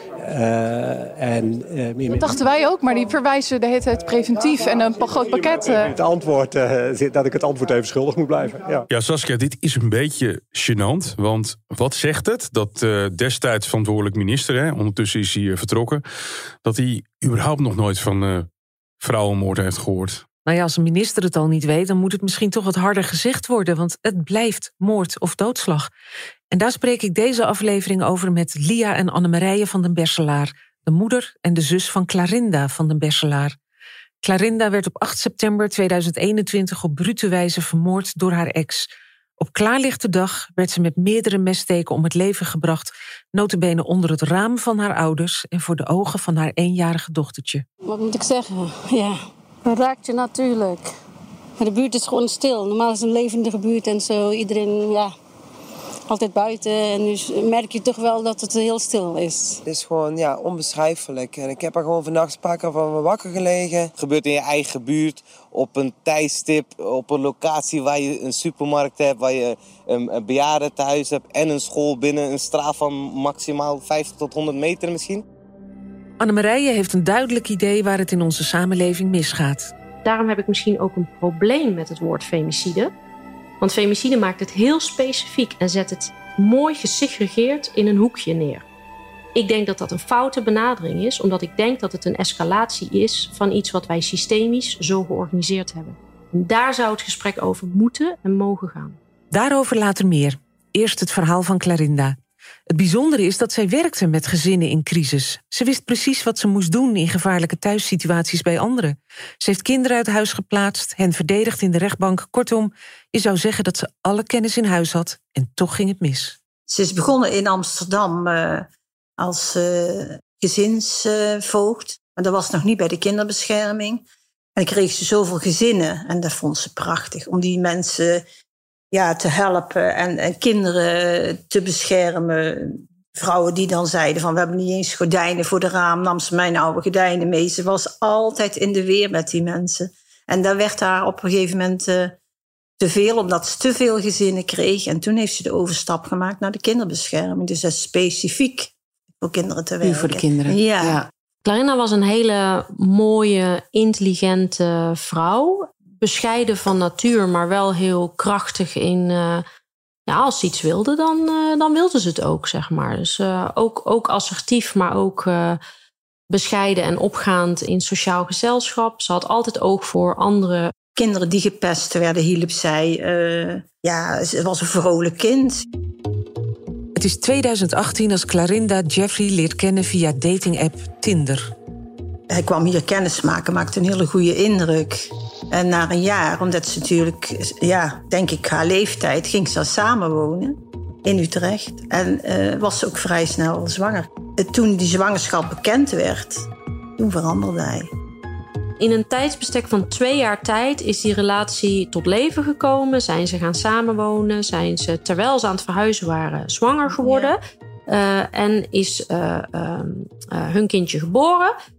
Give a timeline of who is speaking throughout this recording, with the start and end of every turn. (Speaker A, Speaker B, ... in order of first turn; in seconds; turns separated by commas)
Speaker A: 0.2-2.4, Speaker B: 2.2-5.9, Speaker A: 5.9-8.8, Speaker C: 8.9-16.0, Speaker C: 16.6-18.5, Speaker C: 19.0-20.2, Speaker D: 20.5-25.9, Speaker D: 26.5-33.6, Speaker D: 34.2-47.6, Speaker E: 47.9-50.9, Speaker E: 51.6-55.1, Speaker E: 56.1-59.6, Speaker F: 59.7-75.2, Speaker D: 76.2-79.7, Speaker G: 80.0-82.9, Speaker G: 83.6-88.7, Speaker G: 89.3-99.0, Speaker D: 99.3-102.2, Speaker D: 102.7-116.4, Speaker H: 116.7-118.7, Speaker H: 119.2-124.0, Speaker H: 124.6-128.2, Speaker H: 128.9-142.1, Speaker H: 142.8-151.0, Speaker D: 149.8-151.1, Speaker G: 151.4-159.4, Speaker G: 160.1-165.6, Speaker G: 166.3-170.7, Speaker H: 170.9-175.7, Speaker D: 177.0-181.5, Speaker H: 182.3-196.5, Speaker H: 197.0-197.9, Speaker G: 198.8-211.6, Speaker H: 206.9-207.3